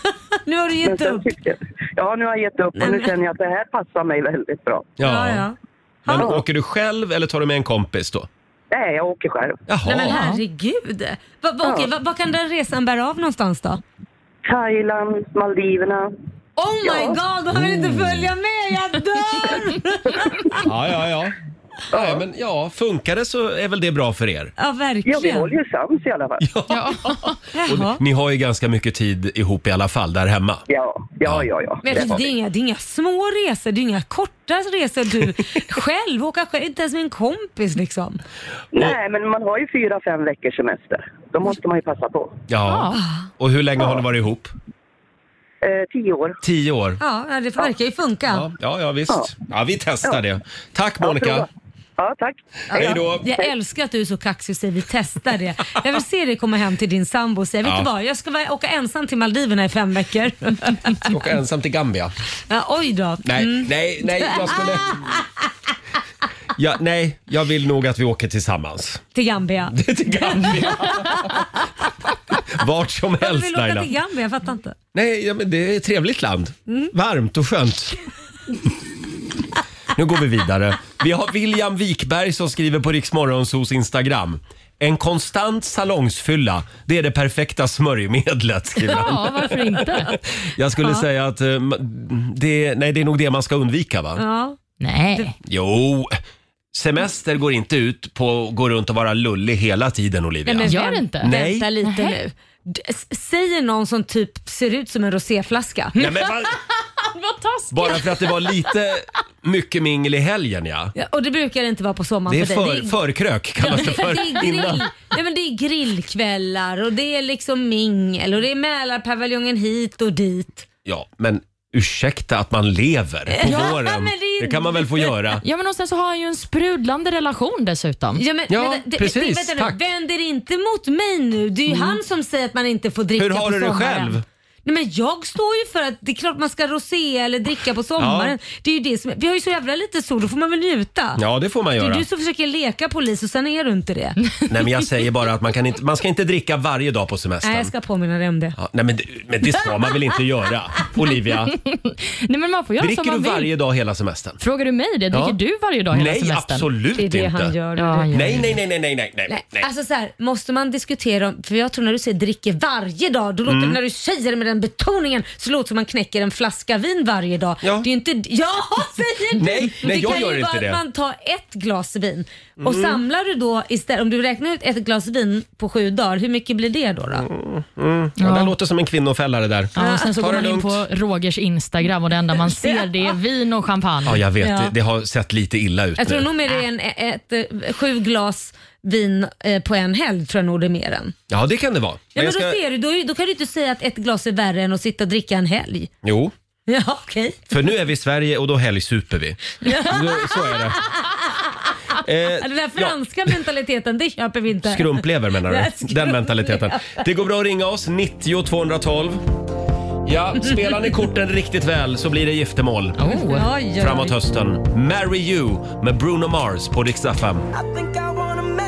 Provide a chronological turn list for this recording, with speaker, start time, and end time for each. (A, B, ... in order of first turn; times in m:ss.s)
0:00.4-0:01.2 A
0:00.8-0:04.9 B
0:02.8-0:03.1 A
0:05.0-0:05.5 C
0:05.0-0:06.3 A
0:06.1-0:08.3 C
0:06.2-0:06.4 B
0:08.7-0:09.6 B
0:09.7-0:10.2 C
0:09.9-0:13.8 A
0:10.1-0:10.4 D
0:11.6-0:11.9 B
0:14.5-0:16.1 B
0:16.6-0:20.6 A
0:16.8-0:17.2 B
0:17.5-0:18.3 C
0:20.6-0:21.4 C
0:21.9-0:22.2 B
0:21.9-0:24.5 C
0:24.6-0:25.5 A
0:25.0-0:26.4 B
0:26.4-0:30.6 C
0:26.7-0:27.4 D
0:27.5-0:28.0 A
0:30.7-0:32.3 B
0:31.2-0:32.2 C
0:31.8-0:38.2 A
0:38.7-0:42.4 B
0:42.5-0:44.5 C
0:42.7-0:43.0 D
0:43.0-0:43.3 A
0:45.6-0:46.4 B
0:46.4-0:47.0 C
0:47.0-0:48.5 A
0:48.3-0:51.5 C
0:51.0-0:51.5 B
0:52.0-0:53.5 B
0:52.7-1:01.1 A
0:52.7-0:53.3 C
1:01.0-1:02.1 C
1:02.5-1:04.9 A
1:03.2-1:05.0 C
1:06.6-1:09.0 C
1:09.2-1:11.3 A
1:09.7-1:11.5 C
1:12.5-1:13.9 C
1:13.2-1:14.8 A
1:14.9-1:18.0 C
1:19.9-1:34.2 C
1:28.8-1:30.2 D
1:34.2-1:34.6 A
1:34.8-1:35.3 D
1:35.4-1:36.2 C
1:36.7-1:41.7 C
1:40.5-1:46.0 A
1:40.6-1:41.3 D
1:41.8-1:42.2 D
1:46.0-1:46.6 C
1:47.0-1:48.5 D
1:47.7-1:50.9 C
1:51.0-1:53.0 A
1:52.3-1:54.9 C
1:53.7-2:00.7 A
2:00.9-2:05.4 C
2:03.3-2:05.1 A
2:05.4-2:08.2 D
2:08.2-2:21.2 A
2:08.5-2:09.8 C
2:11.7-2:12.0 C
2:13.2-2:14.2 C
2:18.0-2:18.4 C
2:21.2-2:22.1 C
2:21.8-2:24.4 A
2:24.5-2:27.7 C
2:27.4-2:28.6 A
2:28.6-2:31.6 C
2:31.5-2:33.5 D
2:32.8-2:34.4 C
2:34.4-2:36.7 D
2:35.1-2:35.4 C
2:35.9-2:37.5 C
2:36.9-2:38.5 A
2:37.8-2:38.5 D
2:38.1-2:39.7 C
2:39.3-2:57.3 A
2:43.5-2:43.8 C
2:47.6-2:47.9 C
2:49.4-2:50.8 C
2:52.6-2:53.0 C
2:57.1-3:00.8 C
2:58.2-2:58.5 D
2:59.8-3:04.2 D
3:02.5-3:02.9 A
3:04.0-3:06.3 C
3:04.4-3:04.7 A
3:06.0-3:11.2 A
3:11.3-3:12.6 C
3:12.2-3:15.9 A
3:16.0-3:16.3 C
3:16.7-3:17.5 A
3:17.5-3:20.8 C
3:19.6-3:21.7 A
3:22.0-3:23.3 C
3:22.4-3:27.0 A
3:24.6-3:29.2 C
3:30.0-3:33.0 C
3:33.0-3:33.4 D
3:33.2-3:34.2 A
3:33.8-3:37.5 C